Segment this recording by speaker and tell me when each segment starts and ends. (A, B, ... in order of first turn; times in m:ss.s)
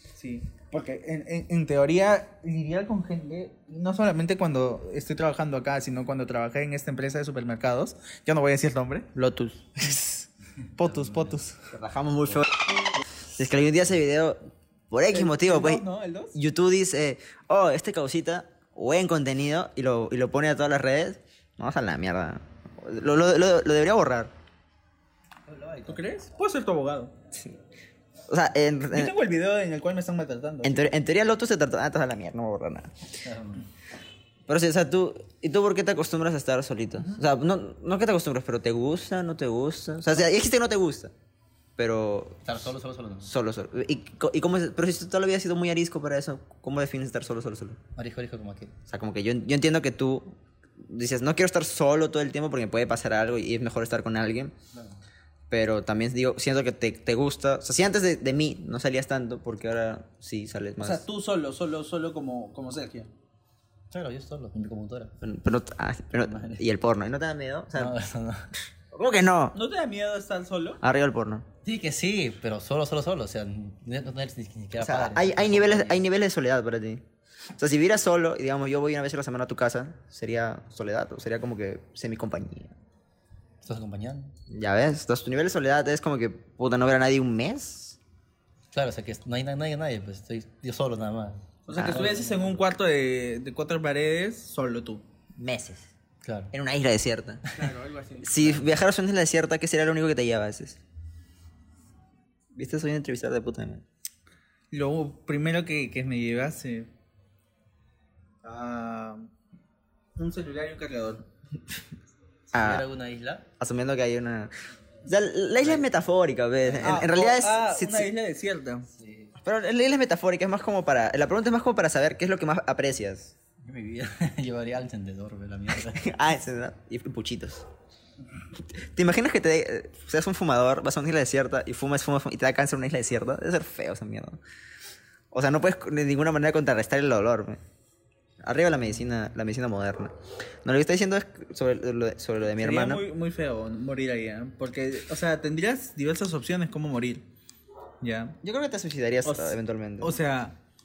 0:00.2-0:09.1 A
0:09.1-0:09.6 B
0:09.8-0:11.6 A
0:10.8-0:11.4 C
0:11.7-0:14.4 B
0:14.9-0:24.3 B
0:15.1-0:16.4 A
0:25.4-0:26.0 C
0:25.9-0:27.1 A
0:27.3-0:27.6 B
0:28.3-0:29.1 B
0:28.9-0:30.9 A
0:30.6-0:32.9 B
0:33.2-0:33.7 C
0:34.5-0:41.1 B
0:41.8-0:42.4 B
0:42.4-0:43.3 C
0:43.2-0:47.8 B
0:48.0-0:48.7 C
0:48.9-0:54.5 B
0:54.7-0:55.0 C
0:55.5-1:01.0 B
1:00.8-1:03.1 A
1:03.9-1:05.1 C
1:05.2-1:07.9 B
1:06.1-1:06.7 C
1:07.7-1:08.5 C
1:08.9-1:09.6 B
1:09.5-1:10.8 A
1:10.8-1:11.4 B
1:11.6-1:16.0 C
1:14.8-1:17.0 B
1:17.6-1:22.8 B
1:23.6-1:24.3 C
1:24.5-1:28.0 B
1:28.7-1:32.6 C
1:31.7-1:35.0 A
1:31.8-1:32.0 B
1:35.4-1:35.9 B
1:36.2-1:36.5 C
1:36.5-1:37.4 B
1:37.5-1:38.6 A
1:38.2-1:40.8 B
1:42.5-1:43.8 B
1:44.7-1:46.9 A
1:48.4-1:49.3 A
1:50.2-1:51.2 A
1:52.5-1:53.4 C
1:52.5-1:52.8 B
1:53.6-1:54.5 B
1:55.0-1:58.1 B
1:56.6-1:57.0 C
1:56.8-1:58.9 A
1:58.9-1:59.3 C
1:59.4-2:03.3 B
2:03.6-2:06.2 C
2:05.7-2:07.7 B
2:08.7-2:14.4 B
2:15.3-2:17.6 B
2:18.4-2:20.1 B
2:20.6-2:23.0 B
2:22.5-2:27.2 A
2:28.0-2:28.4 A
2:28.4-2:30.2 B
2:29.2-2:30.5 A